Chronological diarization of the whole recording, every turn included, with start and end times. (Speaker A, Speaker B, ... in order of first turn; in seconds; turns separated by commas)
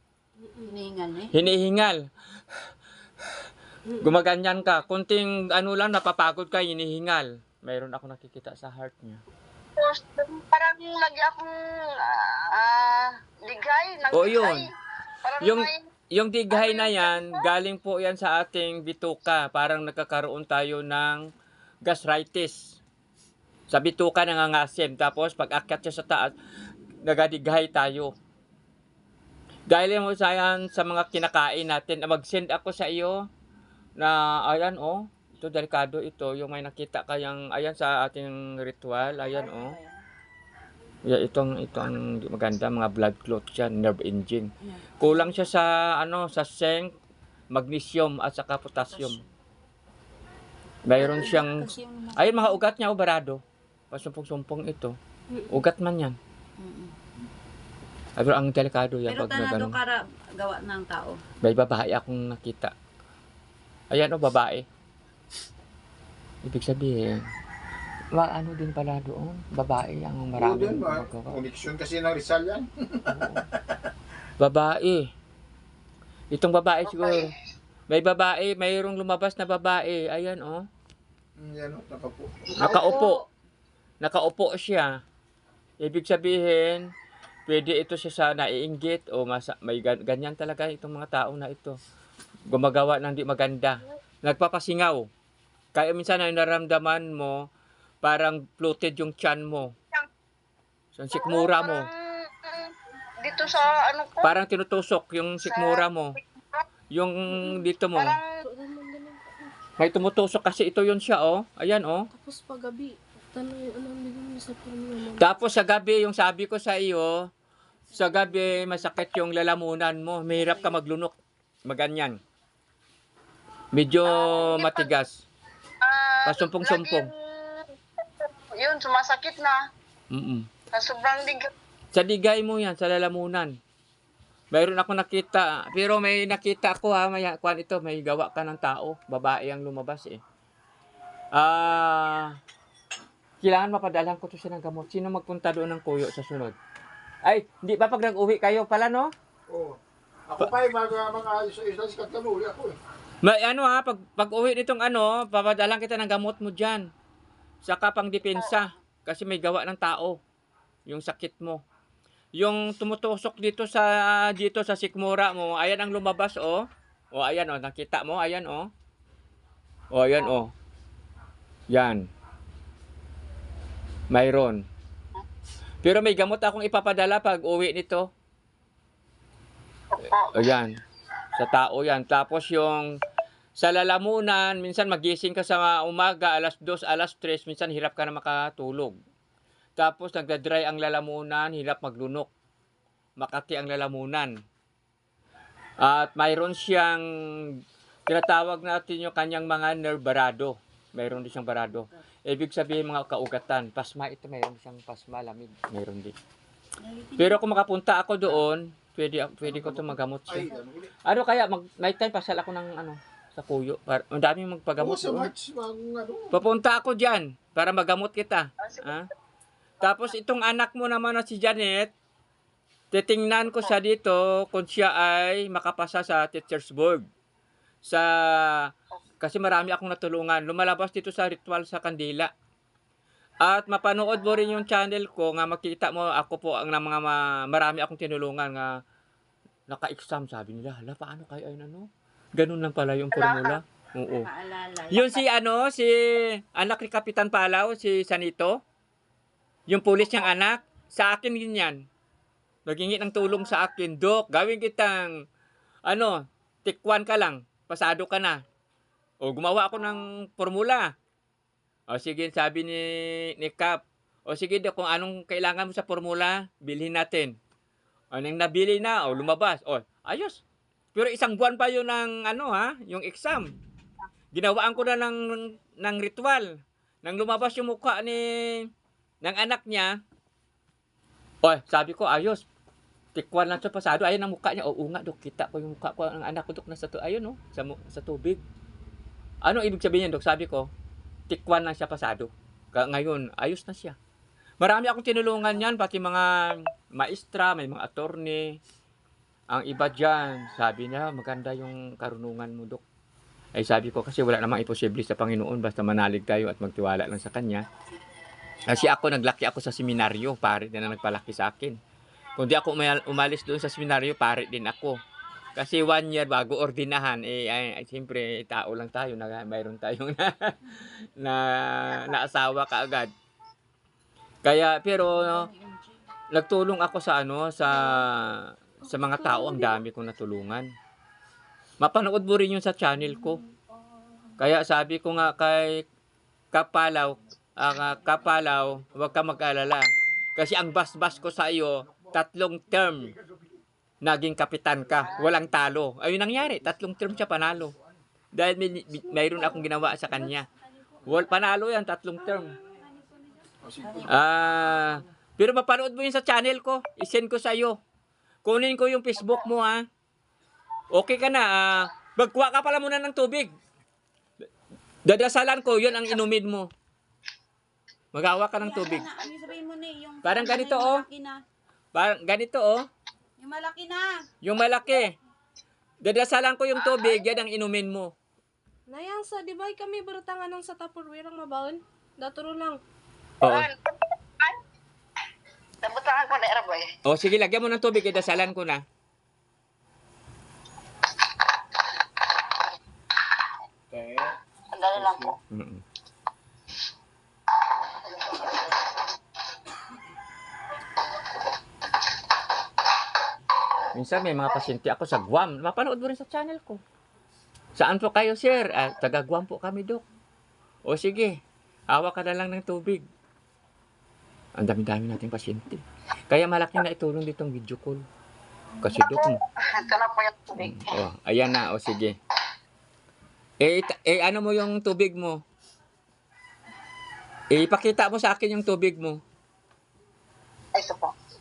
Speaker A: 0.4-0.7, Speaker B: 0.7-1.4, Speaker C: 1.3-2.1, Speaker C: 4.0-9.2, Speaker D: 9.8-14.7, Speaker C: 14.1-14.7, Speaker D: 15.2-15.8, Speaker C: 15.4-21.2, Speaker D: 16.5-17.5, Speaker C: 21.8-22.8, Speaker C: 23.7-26.3, Speaker C: 27.0-28.1, Speaker C: 29.7-33.2, Speaker C: 34.0-39.8, Speaker B: 39.2-40.0, Speaker C: 41.0-46.9, Speaker B: 44.6-45.5, Speaker C: 47.5-49.2, Speaker B: 48.9-49.3, Speaker C: 50.9-55.0, Speaker B: 50.9-52.6, Speaker C: 55.5-56.2, Speaker B: 56.6-56.9, Speaker C: 58.2-59.8, Speaker B: 59.1-61.2, Speaker C: 61.4-62.7, Speaker C: 63.9-64.7, Speaker C: 66.4-67.2, Speaker C: 68.1-71.4, Speaker E: 70.4-73.2, Speaker C: 73.1-73.5, Speaker C: 74.4-75.0, Speaker C: 76.3-77.3, Speaker D: 76.9-77.3, Speaker C: 77.9-80.6, Speaker E: 81.4-82.7, Speaker C: 82.6-83.2, Speaker B: 82.6-83.2, Speaker C: 84.0-84.9, Speaker C: 85.8-86.9, Speaker C: 87.5-91.8, Speaker C: 92.5-95.1, Speaker C: 95.7-97.4, Speaker C: 98.0-99.7, Speaker C: 101.0-101.9, Speaker D: 101.1-104.3, Speaker B: 103.3-103.8, Speaker C: 104.2-106.2, Speaker D: 105.4-106.7, Speaker C: 106.9-108.2, Speaker A: 107.3-107.7, Speaker D: 108.0-108.3, Speaker A: 108.4-109.5, Speaker C: 109.8-112.1, Speaker A: 112.1-115.3, Speaker C: 115.2-117.3, Speaker C: 117.9-121.2, Speaker B: 117.9-118.6, Speaker B: 120.4-120.7, Speaker C: 121.7-122.2, Speaker C: 123.7-125.2, Speaker D: 124.1-125.0, Speaker D: 125.8-129.6, Speaker C: 126.3-127.1, Speaker C: 130.1-130.5, Speaker D: 130.7-131.5, Speaker C: 131.9-133.6, Speaker C: 134.5-140.2, Speaker C: 141.3-142.3, Speaker C: 143.4-146.6, Speaker C: 147.2-149.1, Speaker E: 149.5-152.8, Speaker C: 153.2-156.9, Speaker C: 157.6-160.2, Speaker D: 158.3-158.6, Speaker C: 160.9-161.6, Speaker C: 162.4-168.7, Speaker C: 169.9-170.5, Speaker C: 171.7-172.1, Speaker C: 174.1-174.6, Speaker C: 175.8-178.1, Speaker D: 179.9-180.4, Speaker C: 180.3-180.8, Speaker C: 181.3-182.9, Speaker C: 183.6-188.9, Speaker C: 189.8-192.3, Speaker C: 193.2-194.3, Speaker C: 195.8-197.0, Speaker C: 197.6-206.2, Speaker B: 206.8-207.4, Speaker C: 207.2-210.5, Speaker E: 209.4-210.9, Speaker C: 211.1-215.3, Speaker E: 214.8-216.4, Speaker C: 216.3-219.1, Speaker D: 218.6-219.1, Speaker D: 219.8-220.1, Speaker C: 219.8-221.9, Speaker C: 222.9-227.1, Speaker C: 227.8-232.3, Speaker C: 233.4-238.8, Speaker C: 239.7-244.3, Speaker D: 243.1-243.6, Speaker B: 244.2-245.2, Speaker C: 244.9-248.6, Speaker C: 249.7-251.8, Speaker C: 252.7-255.1, Speaker C: 255.8-258.4, Speaker C: 259.2-260.9, Speaker C: 261.9-267.4, Speaker C: 268.1-270.4, Speaker C: 270.9-273.5, Speaker C: 274.3-278.7, Speaker C: 279.2-280.0, Speaker C: 281.4-282.4, Speaker C: 283.1-288.4, Speaker C: 289.4-290.7, Speaker C: 291.3-294.0, Speaker C: 294.6-298.6, Speaker C: 299.5-302.8, Speaker C: 303.6-307.6, Speaker C: 308.7-311.8, Speaker C: 312.4-315.0, Speaker C: 315.6-323.1, Speaker C: 324.4-325.5, Speaker B: 325.0-326.0, Speaker C: 326.3-330.7, Speaker A: 327.7-328.0, Speaker A: 328.9-329.8, Speaker C: 331.8-333.4, Speaker C: 334.4-335.8, Speaker C: 336.5-343.1, Speaker C: 344.0-347.7, Speaker C: 348.3-350.5, Speaker C: 351.0-352.6, Speaker B: 352.2-354.1, Speaker E: 353.6-354.1, Speaker C: 354.1-357.8, Speaker B: 354.7-354.9, Speaker C: 358.4-359.9, Speaker C: 360.9-363.5, Speaker C: 365.1-366.7, Speaker C: 368.1-369.1, Speaker B: 368.6-371.4, Speaker C: 370.2-371.1, Speaker C: 371.9-372.9, Speaker B: 373.4-374.2, Speaker C: 374.4-375.2, Speaker C: 376.0-378.1, Speaker D: 376.8-377.3, Speaker A: 378.9-382.8, Speaker C: 383.4-383.7, Speaker D: 383.4-384.6, Speaker D: 385.8-386.9, Speaker C: 387.1-388.8, Speaker E: 393.9-394.3, Speaker D: 394.7-395.4, Speaker E: 394.9-395.4, Speaker C: 395.5-395.8, Speaker D: 397.9-398.8, Speaker C: 403.9-406.8, Speaker C: 407.8-410.0, Speaker C: 410.9-411.4, Speaker C: 411.9-413.0, Speaker C: 414.6-418.1, Speaker C: 418.8-419.4, Speaker D: 419.0-420.9, Speaker C: 420.6-422.2, Speaker C: 423.6-425.4, Speaker C: 427.5-429.2, Speaker D: 430.8-431.1